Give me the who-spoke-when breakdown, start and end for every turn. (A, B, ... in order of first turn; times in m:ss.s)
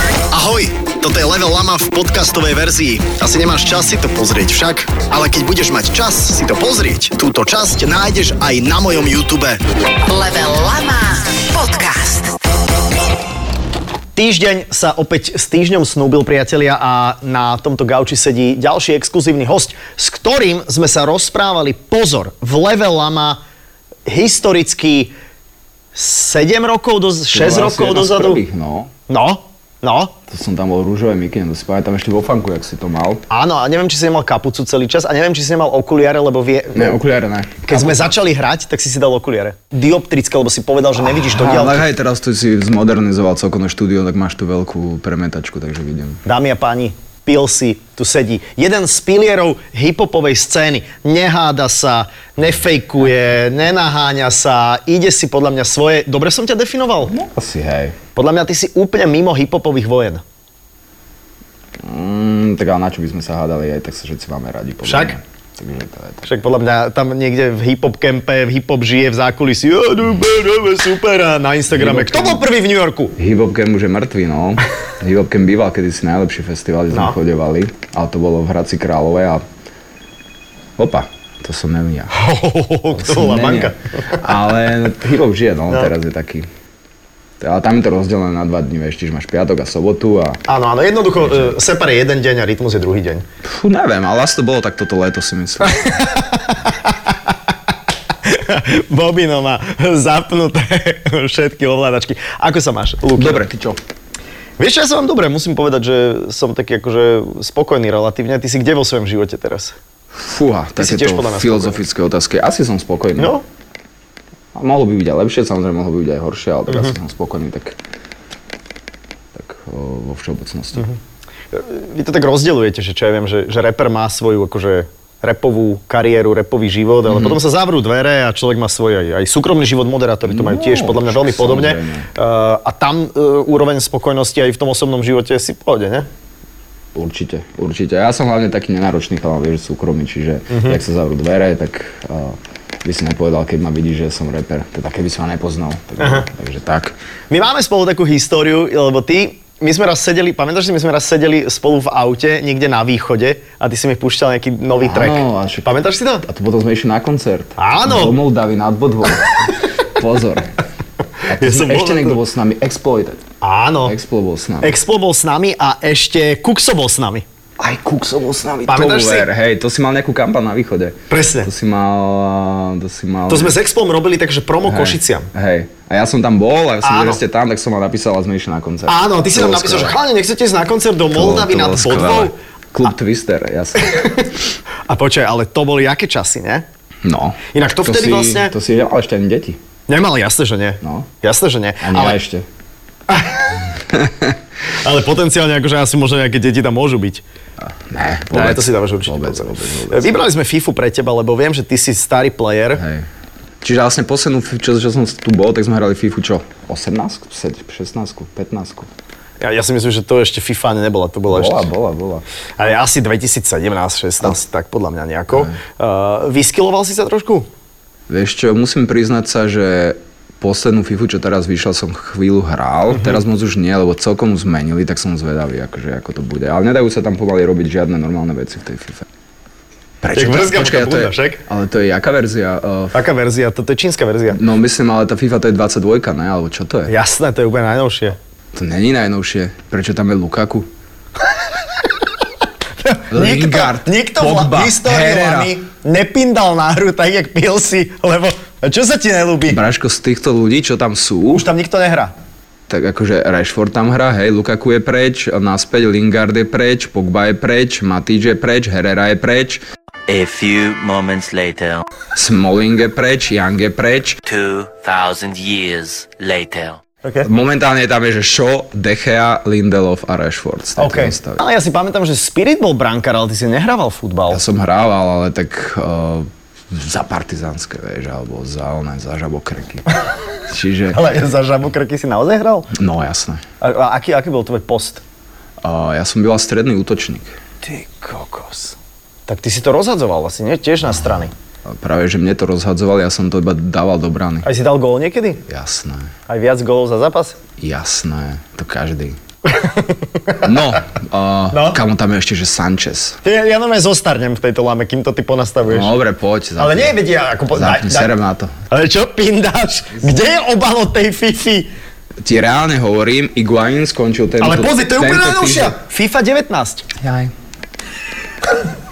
0:00.3-0:09.6 A
0:10.1-0:12.4 B
0:14.1-0:23.4 A
0:24.0-0:25.1 A
0:25.9-0:28.4 A
0:27.3-0:28.9 C
0:29.1-0:30.1 A
0:30.3-0:33.2 C
0:33.3-0:37.0 A
0:36.7-0:38.1 C
0:37.6-0:41.8 A
0:41.2-0:46.2 C
0:46.2-0:57.1 A
0:57.0-0:58.0 C
0:58.1-1:00.2 A
1:01.8-1:06.2 C
1:04.8-1:05.2 A
1:06.2-1:13.1 A
1:11.7-1:12.4 C
1:13.1-1:19.4 C
1:16.9-1:17.2 A
1:20.8-1:22.1 C
1:22.1-1:24.2 A
1:22.9-1:26.5 C
1:27.4-1:30.4 C
1:30.5-1:33.2 A
1:31.2-1:31.6 C
1:33.4-1:36.0 C
1:35.8-1:36.9 A
1:38.2-1:43.4 A
1:43.1-1:43.8 C
1:44.6-1:49.8 A
1:50.1-1:53.3 C
1:50.8-1:51.8 A
1:53.2-1:53.4 A
1:54.5-1:57.8 C
1:56.7-1:56.9 A
1:59.3-2:00.9 C
2:01.5-2:16.1 A
2:07.0-2:07.4 C
2:10.2-2:12.1 C
2:16.9-2:26.9 C
2:20.5-2:20.8 A
2:26.0-2:26.3 A
2:27.3-2:36.2 A
2:34.8-2:40.5 C
2:37.6-2:38.2 A
2:41.2-2:42.2 A
2:41.2-2:43.2 C
2:43.4-2:44.0 A
2:43.8-2:44.8 C
2:44.6-2:47.2 A
2:47.6-2:53.6 C
2:48.7-2:49.3 A
2:51.1-2:51.5 A
2:53.3-2:55.3 A
2:54.6-3:00.0 C
2:56.8-2:57.2 A
2:58.9-3:02.3 A
3:01.1-3:04.1 C
3:03.9-3:04.3 A
3:04.9-3:06.6 A
3:07.0-3:09.6 C
3:07.5-3:08.5 A
3:09.9-3:12.2 A
3:10.8-3:11.1 C
3:11.8-3:12.4 C
3:13.1-3:13.6 A
3:13.9-3:14.3 C
3:14.8-3:17.2 A
3:17.6-3:20.1 C
3:18.3-3:22.8 A
3:22.7-3:23.1 C
3:23.6-3:28.9 C
3:29.4-3:31.7 A
3:31.3-3:32.2 C
3:32.6-3:37.5 A
3:38.1-3:49.1 C
3:50.0-3:53.0 C
3:50.1-3:51.4 A
3:52.9-3:54.4 A
3:54.3-3:56.9 C
3:56.9-3:58.2 A
3:58.5-4:00.7 C
4:02.8-4:09.6 A
4:03.1-4:05.6 C
4:09.5-4:11.5 C
4:11.3-4:12.1 A
4:12.7-4:19.6 C
4:20.1-4:21.9 D
4:22.1-4:24.2 C
4:24.2-4:26.8 D
4:27.2-4:31.4 C
4:30.8-4:34.4 A
4:34.3-4:39.8 C
4:40.5-4:41.0 C
4:40.9-4:42.7 A
4:42.7-4:43.4 C
4:43.6-4:45.0 A
4:45.6-4:47.3 C
4:47.6-4:48.8 A
4:49.3-4:51.3 A
4:51.6-4:54.5 C
4:54.4-4:55.4 A
4:55.5-4:56.1 C
4:56.3-4:57.4 A
4:57.6-4:59.2 C
4:59.5-5:00.5 A
5:00.4-5:03.2 C
5:01.5-5:01.8 A
5:03.2-5:05.9 A
5:05.6-5:07.0 C
5:06.6-5:08.1 A
5:07.5-5:08.5 C
5:08.7-5:11.7 A
5:12.2-5:15.8 C
5:14.4-5:16.9 A
5:17.0-5:17.3 C